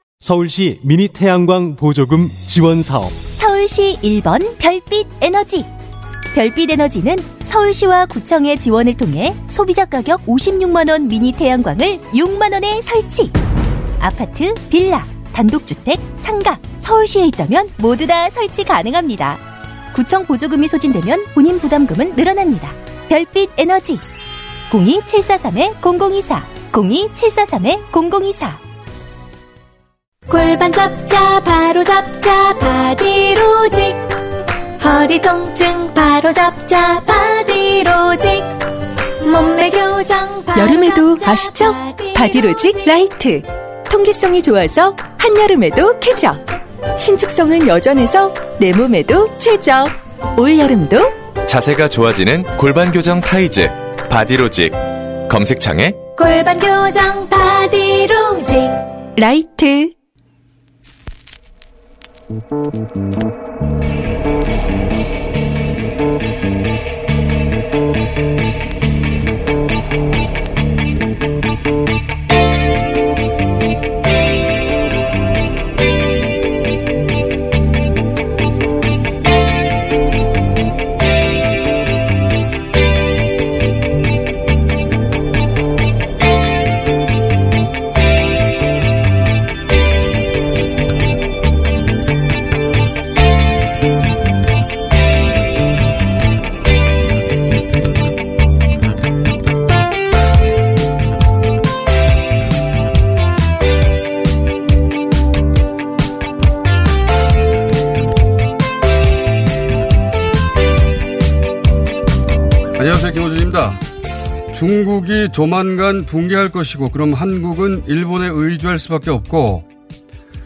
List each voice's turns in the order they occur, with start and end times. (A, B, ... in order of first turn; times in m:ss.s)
0:00.2-0:03.2 A
0:03.2-0:05.7 B
0:06.3-0:13.4 B
0:14.0-0:24.0 B
0:24.7-0:28.6 B
0:30.3-0:34.2 C
0:34.8-0:38.6 C
0:39.2-0:42.8 C
0:40.5-0:46.4 D
0:47.0-0:51.2 D
0:51.4-0:56.0 E
0:56.2-0:58.8 C
0:59.2-0:59.9 D
1:52.8-1:53.8 F
1:54.5-1:59.6 F